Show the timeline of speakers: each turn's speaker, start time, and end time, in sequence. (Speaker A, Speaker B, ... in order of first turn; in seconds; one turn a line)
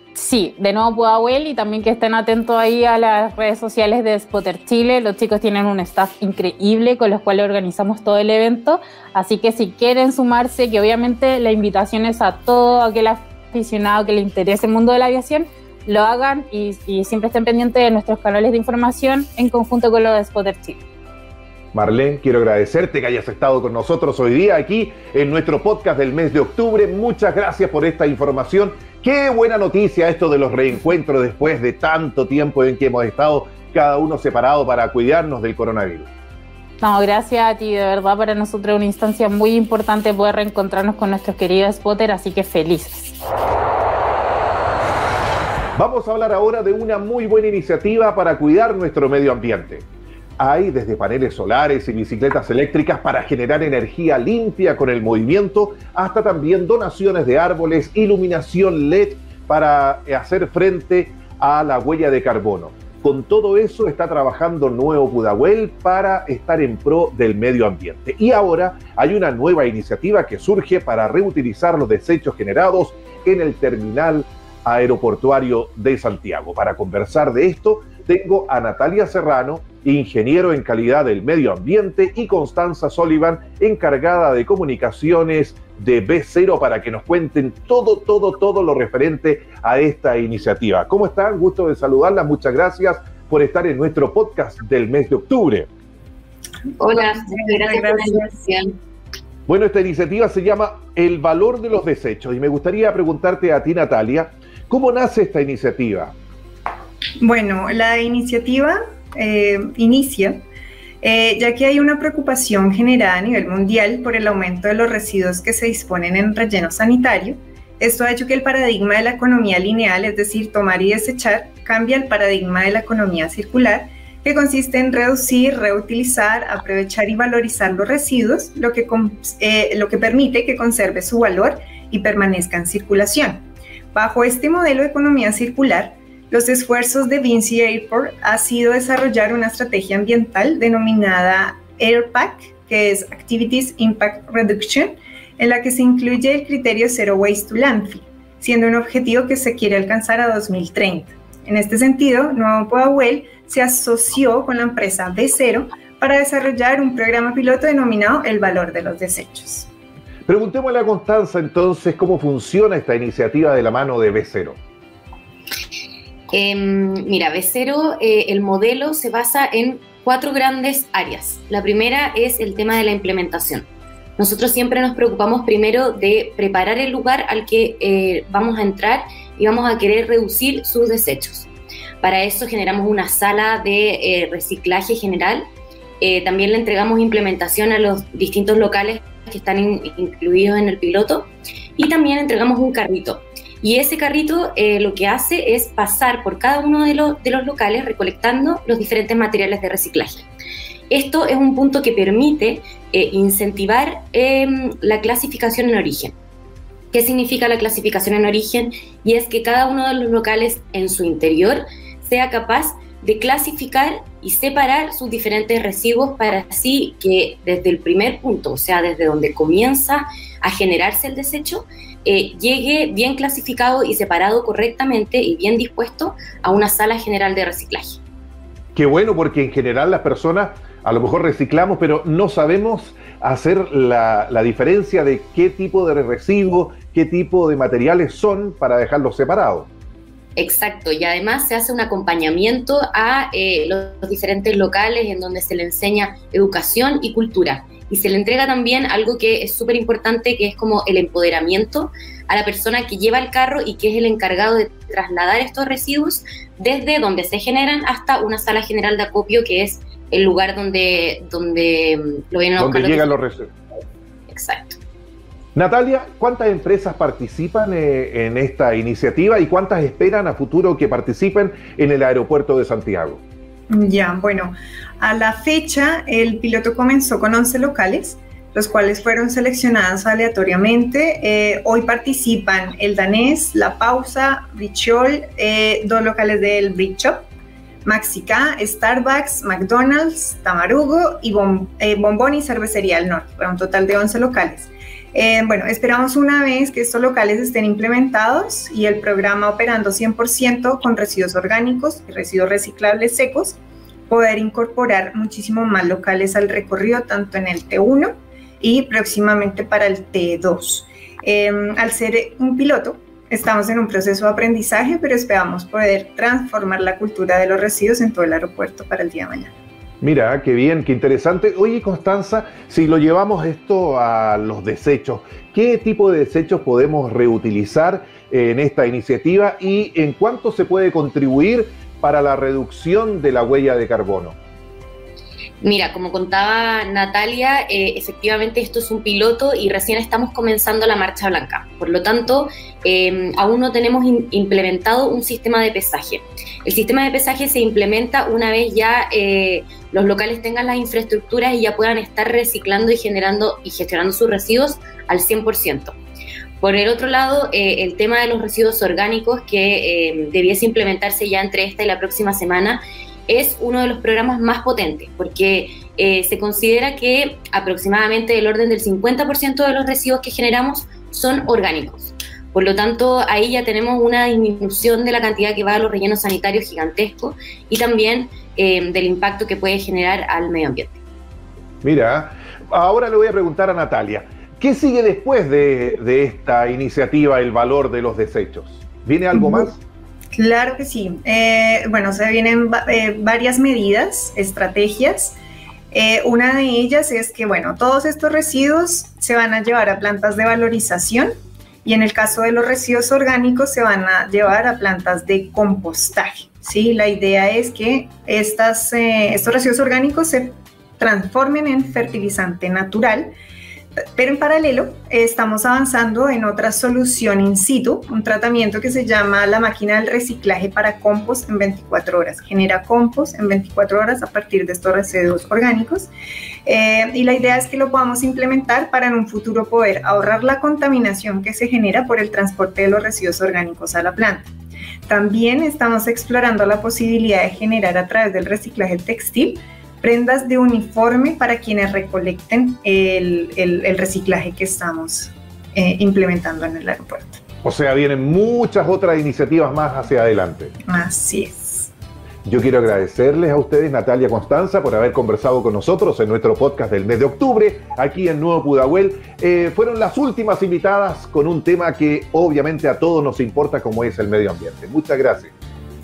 Speaker A: 0.1-20.8
Speaker B: 21.7-36.1
Speaker A: 36.8-43.1
Speaker B: 45.8-49.9
Speaker B: 50.4-95.7
Speaker C: 96.8-98.7
Speaker D: 96.9-98.3
Speaker B: 99.5-106.2
Speaker D: 107.2-110.5
Speaker D: 111.0-159.7
Speaker B: 160.3-164.6
Speaker C: 166.3-181.5
Speaker C: 182.0-185.4
Speaker C: 186.0-200.2
Speaker C: 200.9-206.1
Speaker C: 206.9-228.0
Speaker B: 228.7-239.7
Speaker C: 240.4-263.1
Speaker B: 262.6-263.5
Speaker C: 264.3-264.8
Speaker B: 265.5-273.2
Speaker D: 273.7-287.2
Speaker D: 287.8-303.6
Speaker D: 304.1-319.5
Speaker B: 320.0-334.4
Speaker C: 335.6-356.0
Speaker C: 356.6-381.0
Speaker B: 381.8-389.8
Speaker D: 389.3-389.7
Speaker D: 390.3-395.4
Speaker D: 395.9-401.3
Speaker D: 401.8-413.3
Speaker D: 414.1-426.1
Speaker D: 426.6-434.5
Speaker D: 435.1-447.4
Speaker B: 447.6-450.7
Speaker D: 450.9-451.9
Speaker B: 452.4-465.5